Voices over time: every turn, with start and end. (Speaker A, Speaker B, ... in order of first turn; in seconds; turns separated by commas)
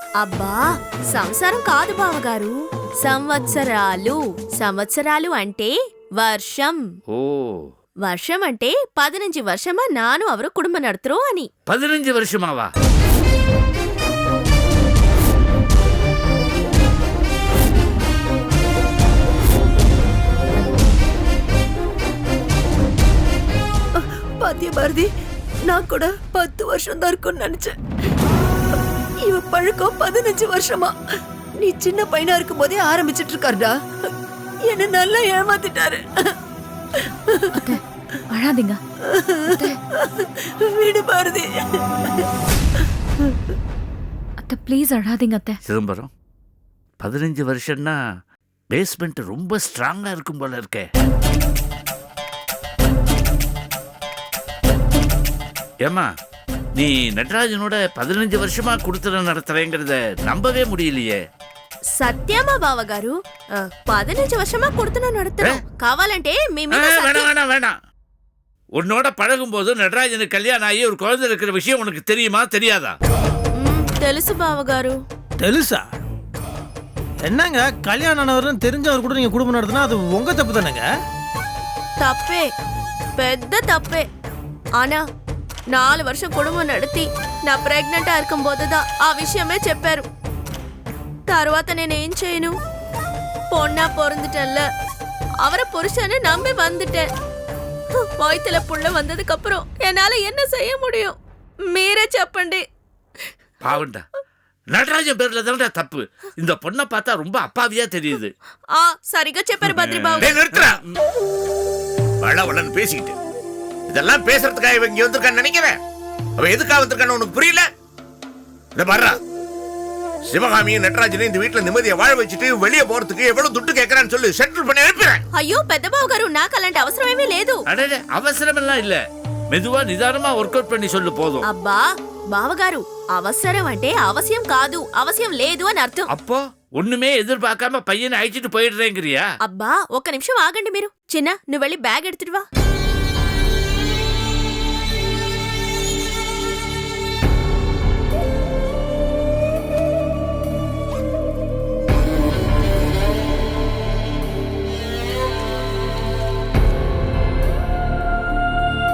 Speaker A: 0.2-6.8, Speaker B: 7.1-7.7, Speaker A: 8.1-11.5, Speaker B: 11.7-12.7, Speaker C: 24.0-25.1, Speaker C: 25.7-27.7, Speaker C: 29.2-30.9, Speaker C: 31.6-33.7, Speaker C: 34.6-36.4, Speaker D: 38.3-38.8, Speaker D: 39.5-39.8, Speaker C: 40.6-41.8, Speaker D: 44.4-45.6, Speaker B: 45.6-46.1, Speaker B: 47.0-48.0, Speaker B: 48.7-50.9, Speaker B: 56.8-61.2, Speaker A: 62.0-67.3, Speaker B: 66.7-67.7, Speaker B: 68.8-73.0, Speaker A: 73.6-75.0, Speaker E: 75.4-75.8, Speaker E: 77.3-80.8, Speaker A: 82.0-82.5, Speaker A: 83.2-84.0, Speaker A: 85.7-90.1, Speaker A: 91.3-92.5, Speaker A: 93.5-94.7, Speaker A: 95.4-97.1, Speaker A: 98.2-101.1, Speaker A: 101.7-102.6, Speaker B: 103.6-104.0, Speaker B: 104.7-108.3, Speaker A: 108.8-110.3, Speaker B: 109.7-110.8, Speaker F: 110.2-110.8, Speaker F: 112.2-113.2, Speaker F: 113.9-115.8, Speaker F: 116.4-117.7, Speaker F: 118.8-119.2, Speaker F: 120.3-125.2, Speaker A: 125.3-127.6, Speaker B: 127.7-129.0, Speaker B: 129.5-131.4, Speaker A: 131.5-136.1, Speaker B: 136.1-139.3, Speaker A: 139.4-142.4